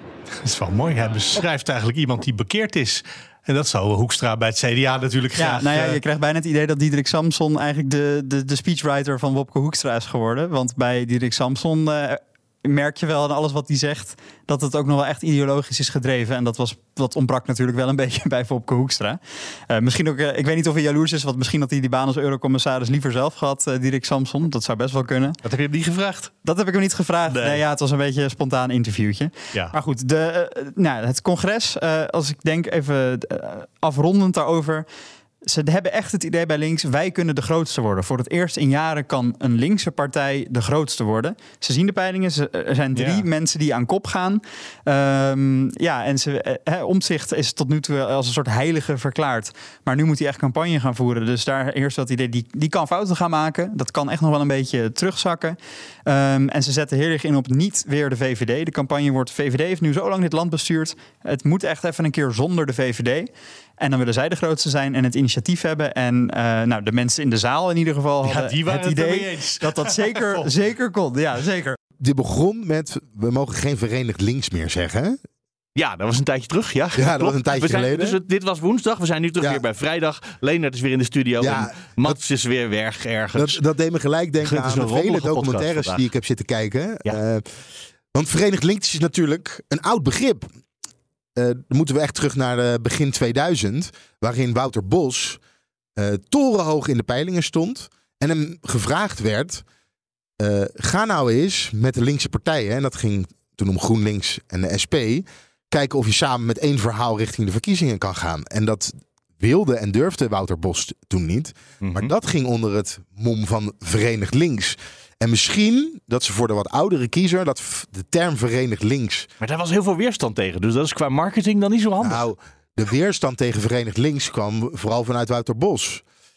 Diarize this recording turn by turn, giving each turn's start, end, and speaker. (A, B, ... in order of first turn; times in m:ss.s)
0:00.4-0:06.0 A
0:05.4-0:25.4 B
0:25.4-0:26.3 A
0:26.4-0:34.8 B
0:27.3-0:27.6 A
0:35.4-1:03.3 B
0:42.9-0:43.2 A
1:03.8-1:11.8 B
1:08.2-1:10.5 A
1:12.0-1:15.2 C
1:15.8-1:23.6 A
1:17.0-1:18.2 C
1:21.4-1:22.2 C
1:23.3-1:30.5 C
1:24.4-1:26.0 A
1:31.4-1:35.4 C
1:36.0-1:39.6 C
1:40.4-1:59.3 C
1:51.8-1:52.1 A
1:59.4-2:02.2 A
2:02.0-2:06.0 C